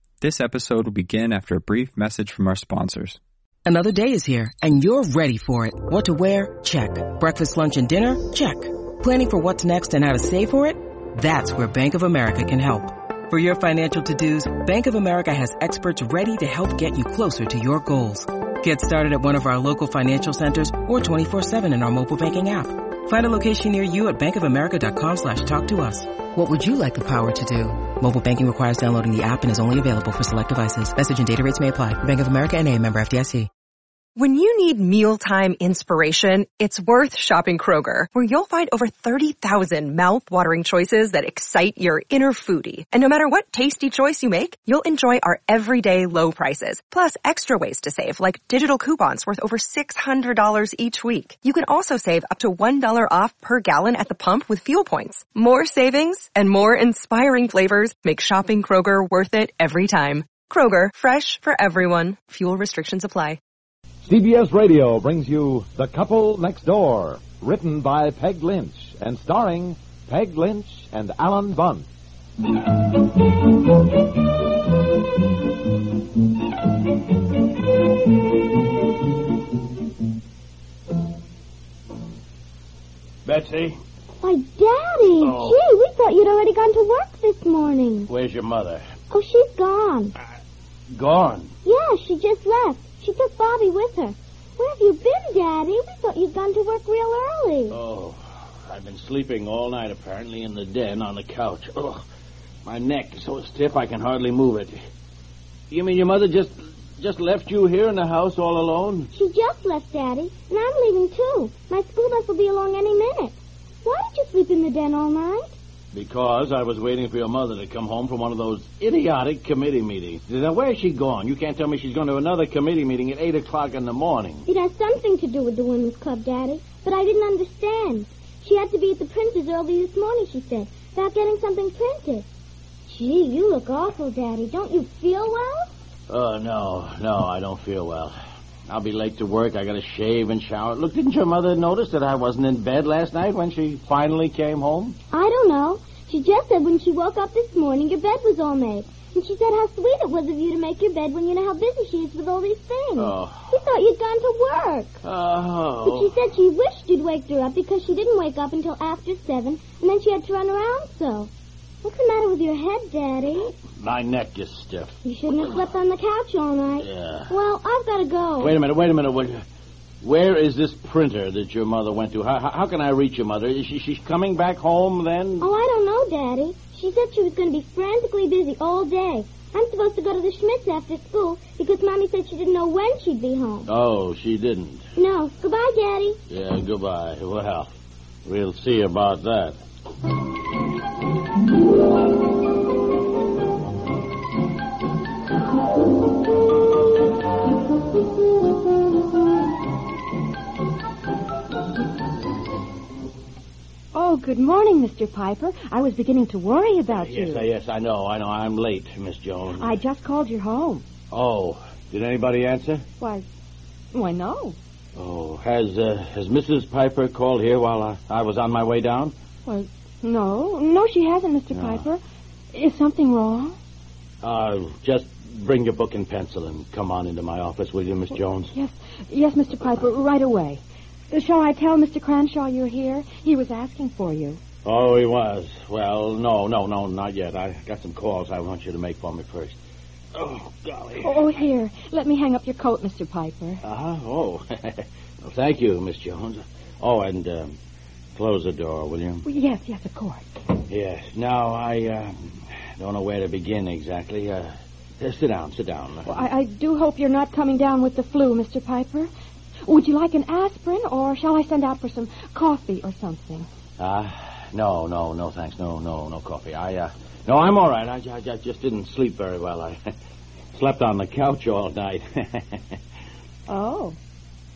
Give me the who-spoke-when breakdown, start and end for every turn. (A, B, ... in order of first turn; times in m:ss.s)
0:00.2-0:03.2 A
0:03.7-0:33.5 B
0:34.2-1:03.4 C
1:04.0-1:11.9 D
1:23.2-1:23.8 E
1:24.2-1:28.1 F
1:25.1-1:25.6 E
1:28.1-1:28.9 E
1:29.1-1:30.1 F
1:30.9-1:31.5 E
1:31.6-1:37.8 F
1:37.7-1:42.0 E
1:42.6-1:44.8 E
1:45.7-1:49.1 E
1:49.1-1:55.5 F
1:55.9-2:04.5 E
2:04.5-2:12.3 F
2:12.9-2:15.7 F
2:16.1-2:18.2 E
2:18.7-2:25.0 E
2:25.1-2:35.0 F
2:33.0-2:33.6 E
2:35.0-2:36.3 E
2:35.8-2:41.3 F
2:41.8-2:43.6 F
2:43.8-2:45.6 E
2:45.0-2:48.6 F
2:46.8-2:47.4 E
2:48.4-2:49.4 E
2:50.0-2:55.6 E
2:55.4-3:03.7 F
3:03.6-3:04.8 E
3:05.0-3:06.2 F
3:06.3-3:07.7 E
3:08.3-3:09.6 E
3:23.9-3:27.5 G
3:26.9-3:29.8 E
3:29.5-3:30.8 G
3:31.1-3:32.8 E
3:33.0-3:33.2 G
3:33.9-3:34.6 G
3:35.0-3:39.1 E
3:39.5-3:42.0 G
3:41.5-3:41.8 E
3:42.5-3:43.6 G
3:44.2-3:48.5 E
3:48.5-3:54.4 G
3:54.6-3:59.6 E
4:00.2-4:01.4 E
4:01.0-4:03.6 G
4:03.6-4:07.6 E
4:08.2-4:09.2 E
4:09.2-4:10.2 G
4:10.7-4:16.2 E
4:16.0-4:19.1 G
4:19.7-4:23.5 G
4:23.8-4:29.8 E
4:30.5-4:32.8 E
4:33.5-4:34.0 G